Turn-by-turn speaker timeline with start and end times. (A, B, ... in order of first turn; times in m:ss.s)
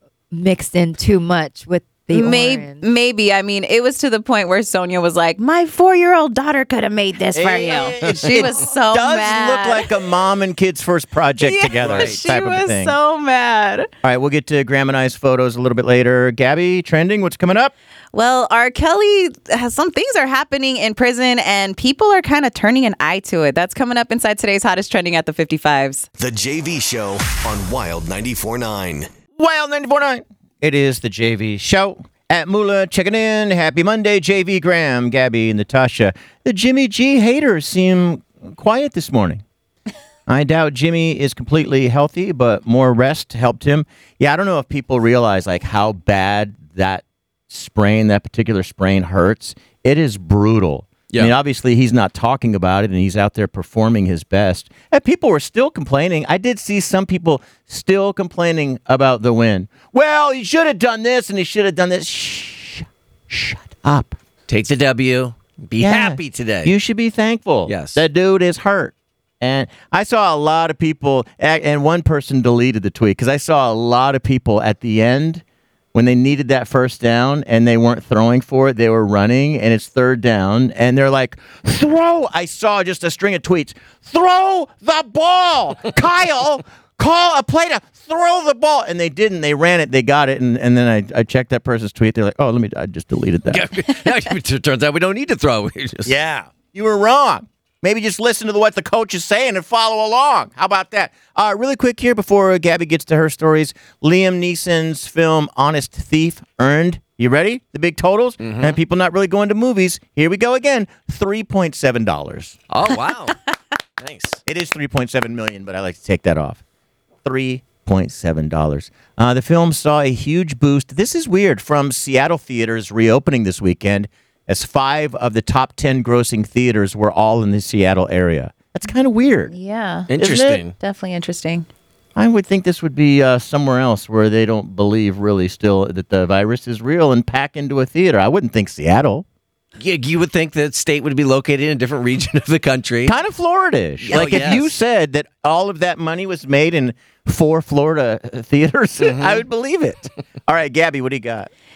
0:00.3-0:02.8 A
0:02.1-0:09.9 B
0:07.3-0:13.0 C
0:11.4-0:13.9 B
0:11.8-0:12.2 D
0:14.0-0:17.7 C
0:18.1-0:26.1 B
0:26.2-0:29.1 E
0:29.4-0:39.4 C
0:40.3-1:04.2 C
1:04.5-1:06.7 D
1:05.8-1:33.7 C
1:07.7-1:08.0 D
1:33.5-1:36.1 D
1:36.0-1:52.6 C
1:48.4-1:48.8 D
1:52.7-1:53.4 D
1:54.0-1:54.4 D
1:54.5-1:56.6 C
1:57.2-2:09.5 C
2:09.5-2:10.1 B
2:10.1-2:10.8 D
2:10.2-2:10.6 C
2:10.8-2:11.7 B
2:12.2-2:19.2 C
2:19.8-2:23.2 D
2:23.1-2:31.5 C
2:24.0-2:24.7 D
2:29.0-2:29.4 D